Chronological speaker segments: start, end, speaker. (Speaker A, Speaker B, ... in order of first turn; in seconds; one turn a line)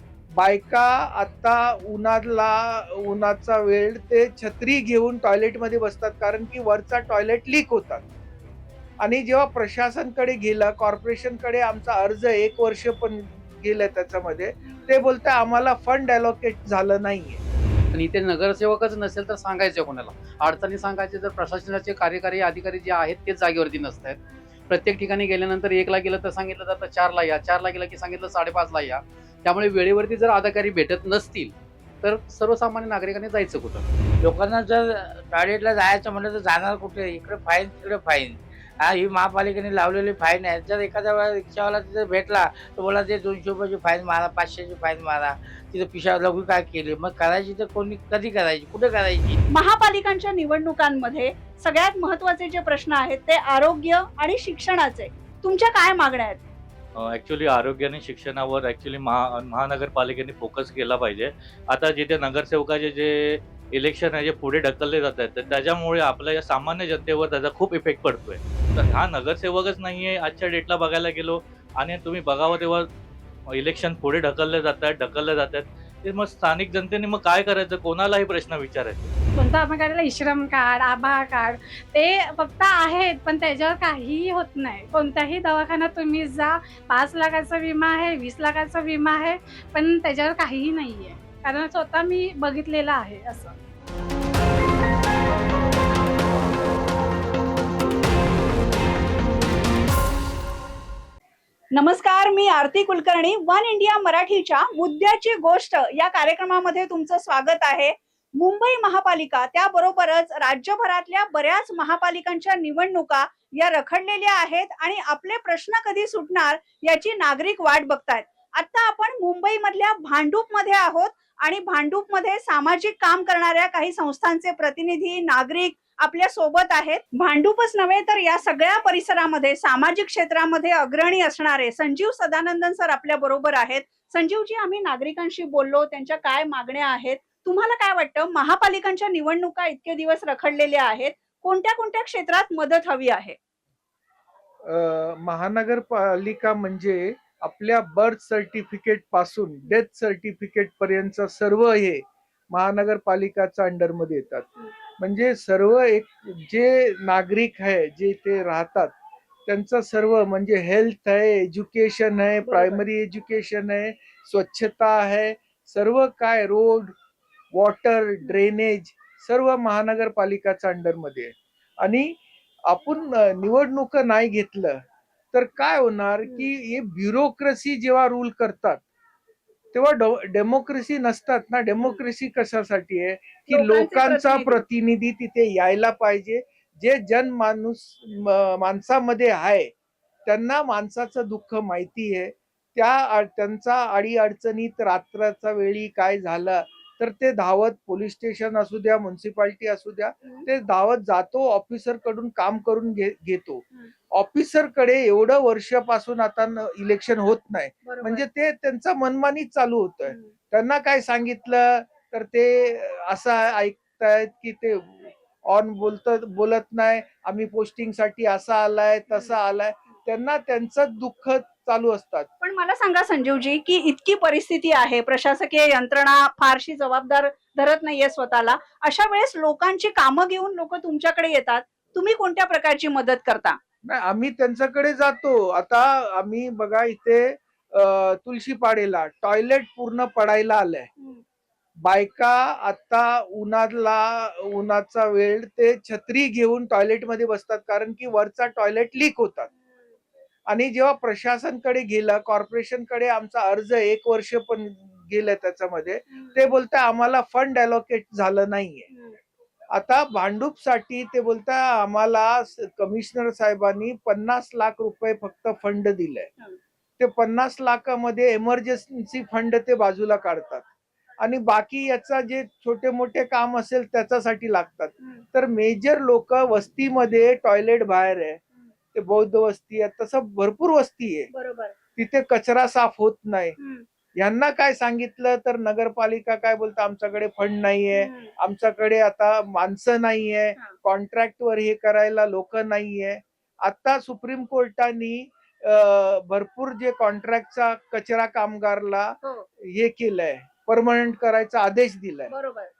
Speaker A: 0.3-8.0
Speaker A: 9.0-17.4
Speaker B: 17.9-33.9
Speaker C: 34.2-49.4
Speaker D: 49.5-56.4
Speaker E: 57.0-72.9
Speaker E: 73.5-79.1
Speaker F: 79.3-93.5
Speaker D: 101.7-143.3
Speaker A: 144.7-158.9
Speaker A: 159.4-166.9
Speaker D: 162.4-162.8
Speaker A: 167.5-178.8
Speaker A: 179.7-189.7
Speaker D: 183.5-184.6
Speaker A: 190.2-222.3
Speaker D: 207.8-208.2
Speaker D: 222.4-233.6
Speaker A: 233.8-240.9
Speaker A: 241.8-249.5
Speaker A: 250.5-258.9
Speaker A: 259.7-266.3
Speaker A: 267.0-270.6
Speaker A: 271.2-278.4
Speaker A: 278.9-281.3
Speaker D: 281.3-281.7
Speaker A: 282.0-283.5
Speaker D: 283.6-283.8
Speaker A: 284.2-302.3
Speaker D: 287.9-288.3
Speaker D: 302.3-302.7